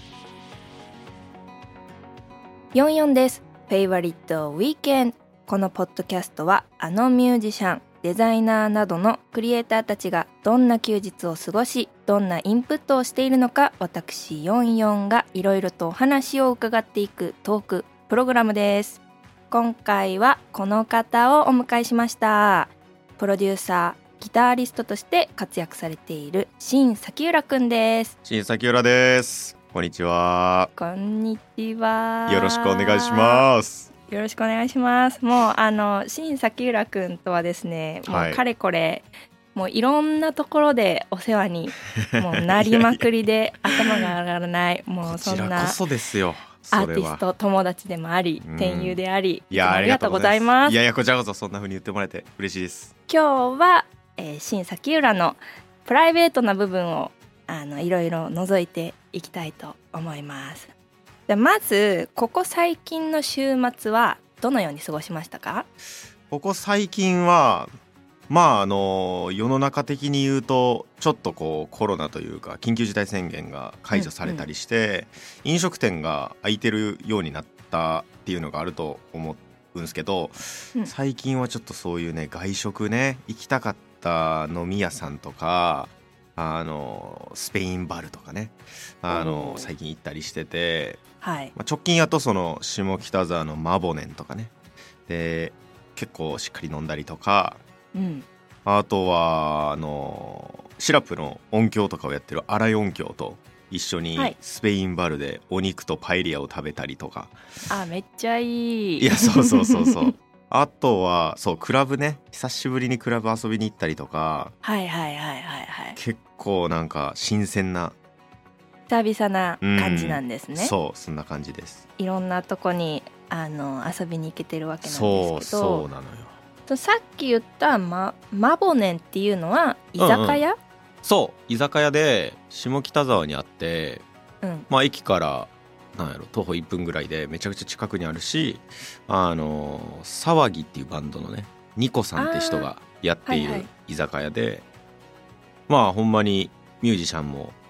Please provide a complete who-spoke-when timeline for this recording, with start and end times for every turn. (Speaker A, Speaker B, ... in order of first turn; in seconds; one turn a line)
Speaker A: 2.7-28.1
Speaker B: 28.2-30.7
Speaker A: 30.8-33.5
Speaker B: 32.3-33.9
Speaker A: 34.1-45.8
Speaker B: 38.1-38.4
Speaker B: 42.0-43.0
Speaker B: 45.0-47.2
Speaker A: 46.7-50.8
Speaker B: 48.4-52.9
Speaker A: 53.1-60.7
Speaker A: 61.3-65.7
Speaker B: 66.3-67.7
Speaker B: 68.3-91.0
Speaker A: 73.9-74.5
Speaker A: 89.1-89.7
Speaker A: 91.2-91.5
Speaker B: 91.5-94.5
Speaker B: 95.1-97.6
Speaker A: 97.9-98.2
Speaker B: 98.6-107.3
Speaker A: 107.7-110.1
Speaker B: 109.0-114.5
Speaker A: 114.6-116.0
Speaker B: 116.0-117.9
Speaker A: 118.9-120.7
Speaker B: 119.6-121.8
Speaker A: 122.0-125.9
Speaker B: 124.8-126.3
Speaker A: 126.7-130.6
Speaker B: 130.0-130.4
Speaker B: 131.0-134.0
Speaker A: 134.4-134.7
Speaker B: 134.7-144.6
Speaker A: 142.2-142.7
Speaker A: 143.2-143.7
Speaker B: 145.7-147.6